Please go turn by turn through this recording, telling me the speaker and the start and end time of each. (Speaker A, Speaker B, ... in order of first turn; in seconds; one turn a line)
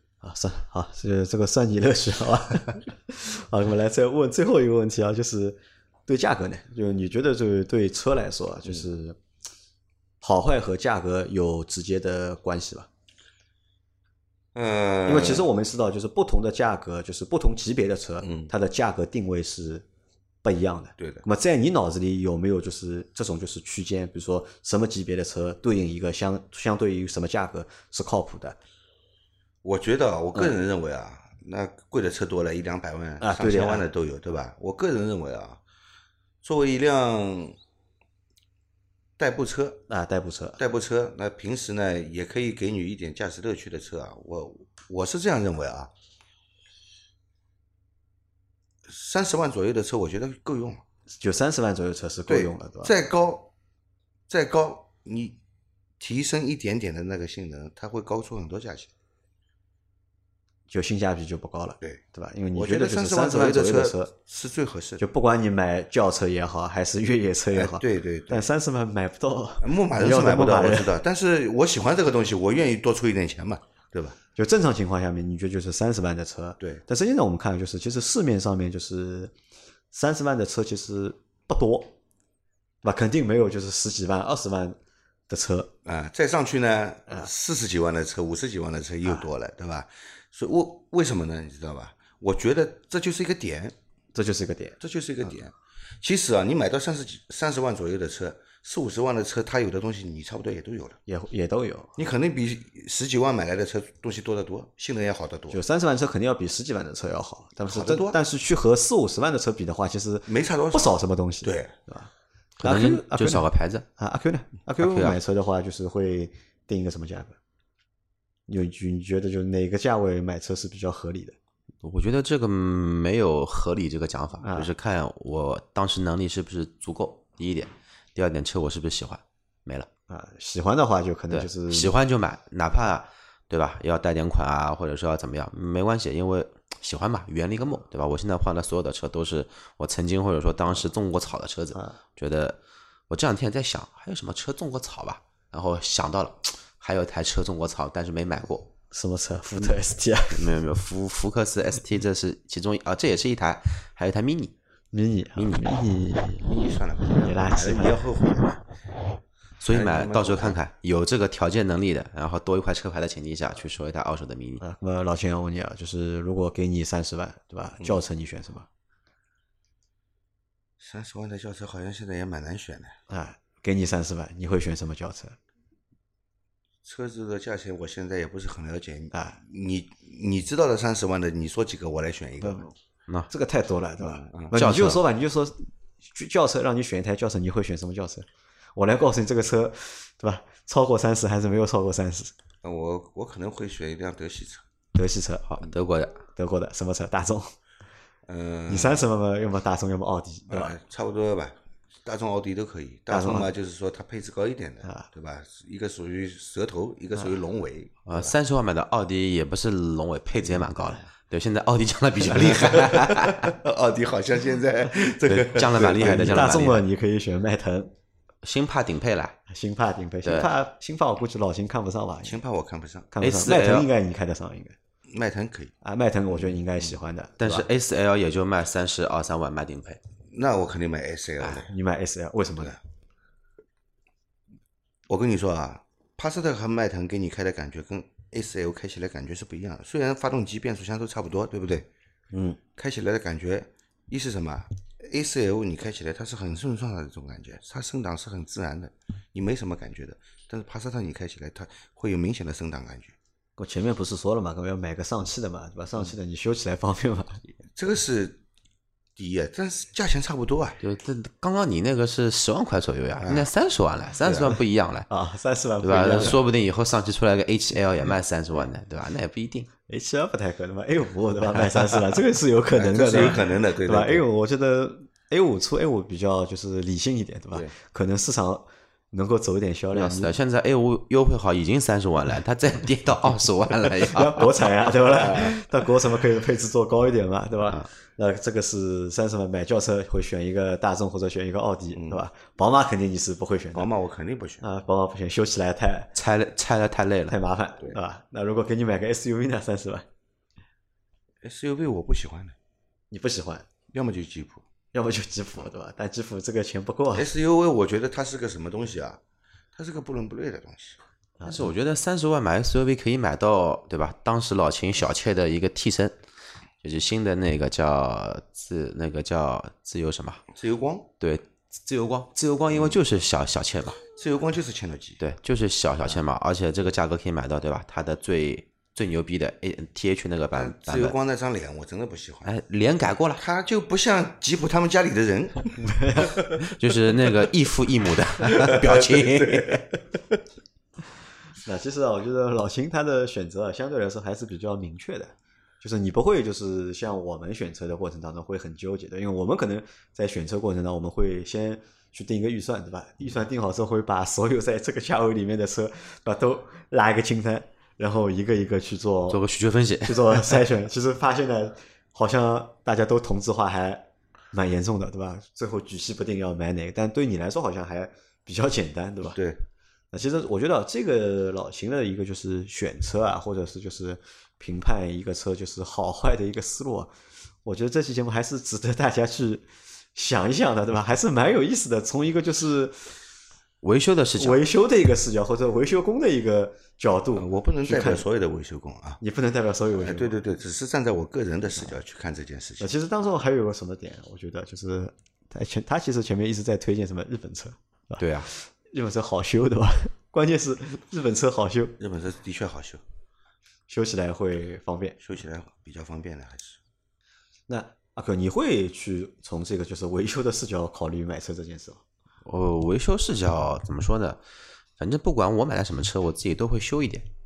Speaker A: 0.2-9.2
Speaker A: 10.2-12.9
Speaker B: 14.5-15.5
Speaker A: 15.1-19.9
Speaker B: 18.2-18.5
Speaker A: 20.4-28.6
Speaker B: 21.0-21.2
Speaker B: 29.6-35.6
Speaker A: 33.2-33.9
Speaker B: 36.4-37.6
Speaker B: 39.2-39.9
Speaker A: 39.9-40.6
Speaker B: 40.6-45.9
Speaker B: 48.9-50.8
Speaker A: 51.1-52.9
Speaker B: 52.3-53.5
Speaker B: 54.3-55.4
Speaker B: 56.0-58.9
Speaker A: 60.7-64.1
Speaker B: 62.5-65.0
Speaker A: 65.0-70.9
Speaker B: 67.5-68.5
Speaker B: 69.6-74.2
Speaker A: 74.4-79.3
Speaker A: 79.9-81.9
Speaker A: 82.8-84.8
Speaker A: 85.3-85.7
Speaker B: 85.8-93.8
Speaker A: 94.1-94.8
Speaker B: 94.8-101.0
Speaker A: 101.1-102.0
Speaker B: 102.0-105.6
Speaker A: 105.5-112.1
Speaker B: 107.7-108.2
Speaker B: 110.3-111.7
Speaker C: 112.6-113.9
Speaker A: 112.6-113.5
Speaker A: 114.0-117.4
Speaker C: 114.8-115.2
Speaker A: 118.5-121.4
Speaker C: 121.8-129.9
Speaker A: 124.4-124.7
Speaker A: 130.1-131.9
Speaker C: 131.3-142.6
Speaker C: 143.1-148.7
Speaker A: 148.9-150.5
Speaker C: 150.3-154.5
Speaker A: 154.9-156.5
Speaker C: 155.4-155.6
Speaker B: 156.4-158.6
Speaker A: 157.2-158.1
Speaker C: 159.6-164.6
Speaker B: 159.7-160.6
Speaker A: 164.6-168.7
Speaker B: 170.8-173.0
Speaker A: 173.1-175.4
Speaker B: 176.8-182.7
Speaker A: 179.1-179.4
Speaker A: 182.4-182.8
Speaker A: 183.3-192.3
Speaker B: 184.0-184.5
Speaker C: 184.5-185.0
Speaker B: 192.6-194.7
Speaker A: 194.9-195.5
Speaker C: 195.5-196.2
Speaker A: 196.4-197.6
Speaker B: 198.3-199.1
Speaker A: 198.7-200.8
Speaker B: 200.5-208.3
Speaker A: 203.1-203.5
Speaker C: 208.1-213.6
Speaker B: 212.3-216.6
Speaker C: 215.2-216.8
Speaker A: 215.8-217.9
Speaker C: 218.4-219.4
Speaker A: 219.5-222.4
Speaker B: 222.2-223.1
Speaker A: 223.1-224.8
Speaker C: 223.2-223.9
Speaker B: 225.1-225.7
Speaker A: 225.8-227.7
Speaker C: 227.4-230.0
Speaker B: 230.3-231.7
Speaker A: 231.7-232.8
Speaker B: 235.1-241.9
Speaker A: 242.3-242.6
Speaker B: 242.8-253.2
Speaker A: 253.6-257.4
Speaker B: 257.7-258.4
Speaker B: 259.2-260.8
Speaker C: 260.8-265.1
Speaker B: 263.2-263.5
Speaker B: 264.2-264.6
Speaker A: 265.1-266.4
Speaker C: 265.8-269.7
Speaker A: 269.9-280.3
Speaker B: 272.8-274.2
Speaker C: 279.9-284.7
Speaker A: 284.0-293.9
Speaker B: 285.1-285.5
Speaker B: 291.9-292.2
Speaker B: 293.7-294.6
Speaker A: 294.6-296.1
Speaker C: 296.1-297.4
Speaker A: 297.3-300.1
Speaker B: 301.4-302.6
Speaker A: 303.1-303.7
Speaker B: 303.9-304.6
Speaker A: 304.9-307.3
Speaker B: 307.1-309.2
Speaker B: 309.7-311.0
Speaker A: 311.4-311.7
Speaker C: 311.5-316.2
Speaker C: 316.8-320.4
Speaker B: 320.5-321.1
Speaker C: 321.2-324.0
Speaker B: 322.7-323.0
Speaker B: 324.2-325.2
Speaker C: 325.2-331.1
Speaker B: 330.5-332.5
Speaker C: 332.4-333.4
Speaker B: 333.4-336.7
Speaker A: 335.8-336.5
Speaker C: 336.6-339.9
Speaker B: 338.5-339.8
Speaker A: 341.6-359.4
Speaker C: 359.3-360.6
Speaker A: 360.1-369.4
Speaker B: 369.4-369.6
Speaker A: 370.1-377.1
Speaker A: 377.6-383.0
Speaker C: 383.8-384.6
Speaker A: 384.4-388.3
Speaker B: 387.4-389.2
Speaker A: 389.2-390.4
Speaker B: 390.0-392.9
Speaker A: 392.8-402.0
Speaker C: 398.2-398.5
Speaker B: 402.0-403.0
Speaker A: 403.9-405.2
Speaker B: 405.2-406.8
Speaker A: 407.7-412.0
Speaker C: 412.4-414.4
Speaker C: 415.0-417.3